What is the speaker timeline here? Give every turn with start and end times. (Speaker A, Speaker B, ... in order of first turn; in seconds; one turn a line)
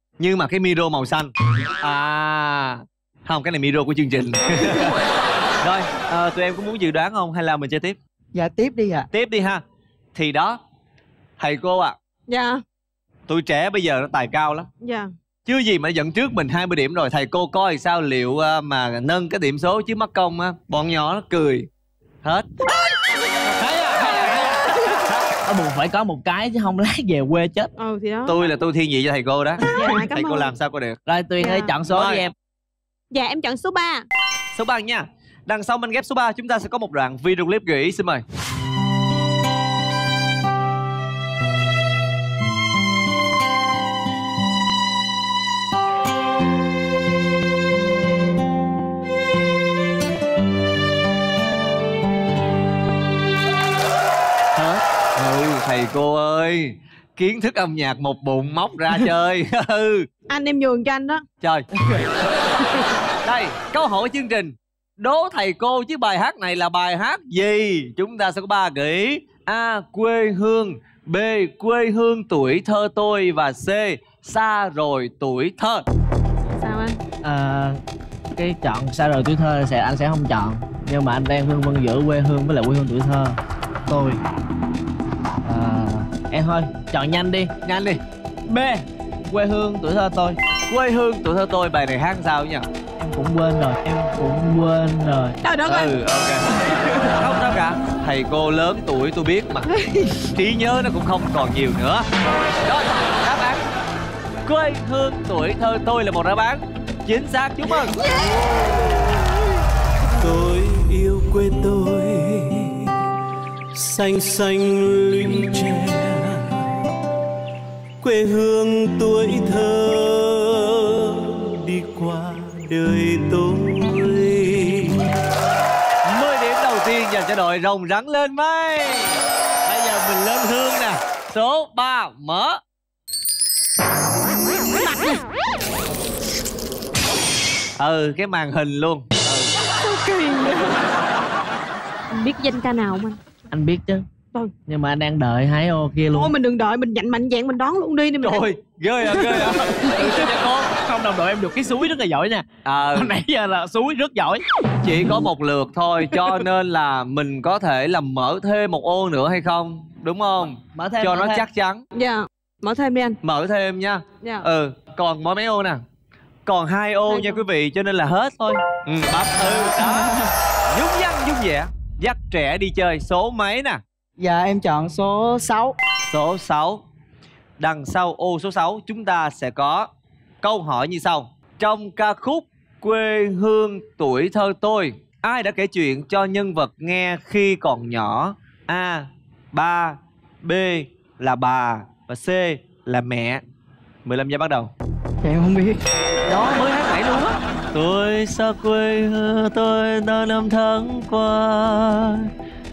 Speaker A: 0.2-5.0
Speaker A: 5.6-8.0
Speaker B: 8.3-9.1
Speaker A: 9.1-9.6
Speaker A: 10.1-10.6
Speaker A: 11.4-11.9
Speaker C: 12.3-12.6
Speaker A: 13.3-14.7
Speaker C: 14.8-15.1
Speaker A: 15.4-21.7
Speaker A: 23.5-25.2
Speaker D: 24.0-24.6
Speaker D: 25.4-27.7
Speaker C: 27.8-28.4
Speaker A: 28.2-31.0
Speaker C: 29.6-30.5
Speaker D: 31.1-32.3
Speaker C: 31.4-31.7
Speaker A: 31.9-32.2
Speaker C: 33.1-34.0
Speaker A: 34.5-38.2
Speaker A: 54.5-60.1
Speaker C: 60.3-61.2
Speaker A: 61.4-61.7
Speaker A: 63.2-75.8
Speaker C: 76.5-77.0
Speaker D: 77.2-77.8
Speaker D: 78.3-84.2
Speaker D: 85.4-87.5
Speaker A: 87.6-88.0
Speaker D: 88.5-90.4
Speaker A: 90.7-92.6
Speaker D: 93.0-95.4
Speaker C: 95.4-95.9
Speaker A: 95.7-99.7
Speaker C: 99.7-100.2
Speaker A: 100.3-102.0
Speaker A: 102.6-103.6
Speaker A: 104.5-108.0
Speaker C: 107.8-109.1
Speaker E: 108.1-109.2
Speaker E: 110.2-112.9
Speaker E: 113.7-116.6
Speaker E: 118.0-125.0
Speaker A: 126.0-132.6
Speaker A: 137.8-139.5
Speaker C: 139.7-140.8
Speaker C: 142.1-143.2
Speaker D: 143.5-144.1
Speaker D: 144.7-146.3
Speaker C: 146.1-148.4
Speaker A: 148.2-150.7
Speaker D: 150.7-154.4
Speaker A: 152.6-153.1
Speaker A: 154.8-161.8
Speaker D: 160.7-161.4
Speaker C: 161.9-163.2
Speaker A: 163.2-165.8
Speaker C: 164.2-164.5
Speaker A: 166.4-170.2
Speaker C: 167.1-167.4
Speaker B: 169.4-170.3
Speaker A: 170.7-173.8
Speaker B: 174.2-175.8
Speaker A: 176.1-176.8
Speaker A: 177.6-179.9
Speaker A: 180.4-193.4
Speaker A: 194.0-194.7
Speaker B: 195.2-195.8
Speaker A: 196.2-202.3